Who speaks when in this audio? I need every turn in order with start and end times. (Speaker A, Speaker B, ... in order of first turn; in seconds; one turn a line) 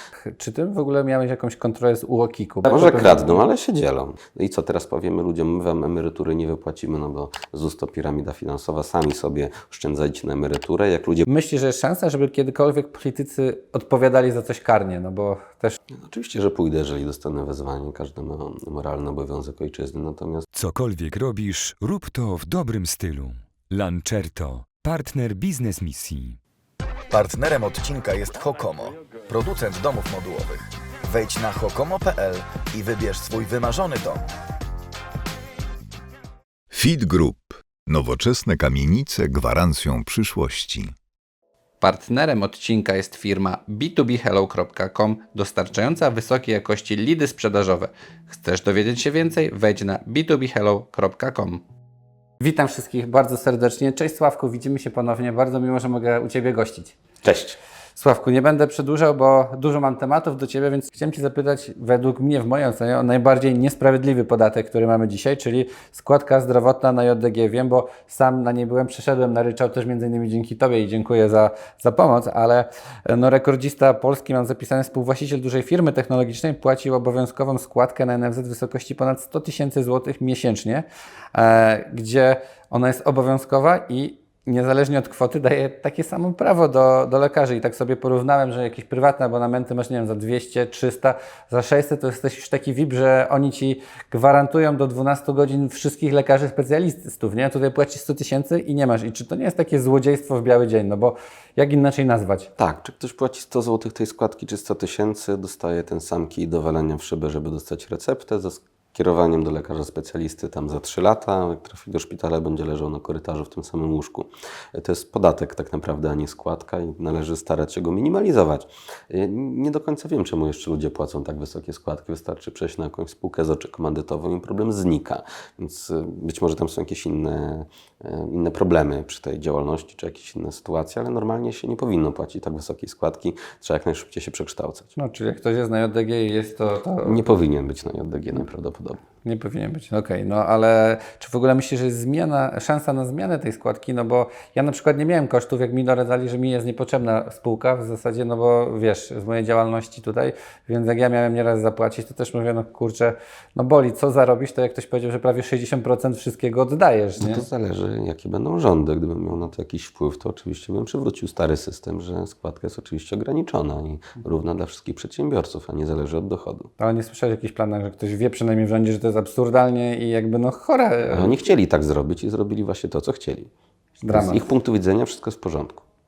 Speaker A: 0.2-3.4
Speaker B: 2.7-11.2
Speaker A: 11.2-15.8
Speaker B: 15.9-20.4
Speaker C: 20.5-26.4
Speaker D: 27.1-34.2
Speaker E: 36.7-40.9
Speaker A: 41.8-51.6
Speaker A: 52.4-57.0
Speaker B: 57.2-57.6
Speaker A: 58.0-102.5
Speaker B: 102.6-134.9
Speaker A: 134.9-137.3
Speaker B: 137.0-139.0
Speaker A: 139.2-157.4
Speaker B: 157.2-166.7
Speaker A: 166.8-171.4
Speaker B: 171.1-173.5
Speaker A: 174.0-174.4
Speaker B: 174.1-175.8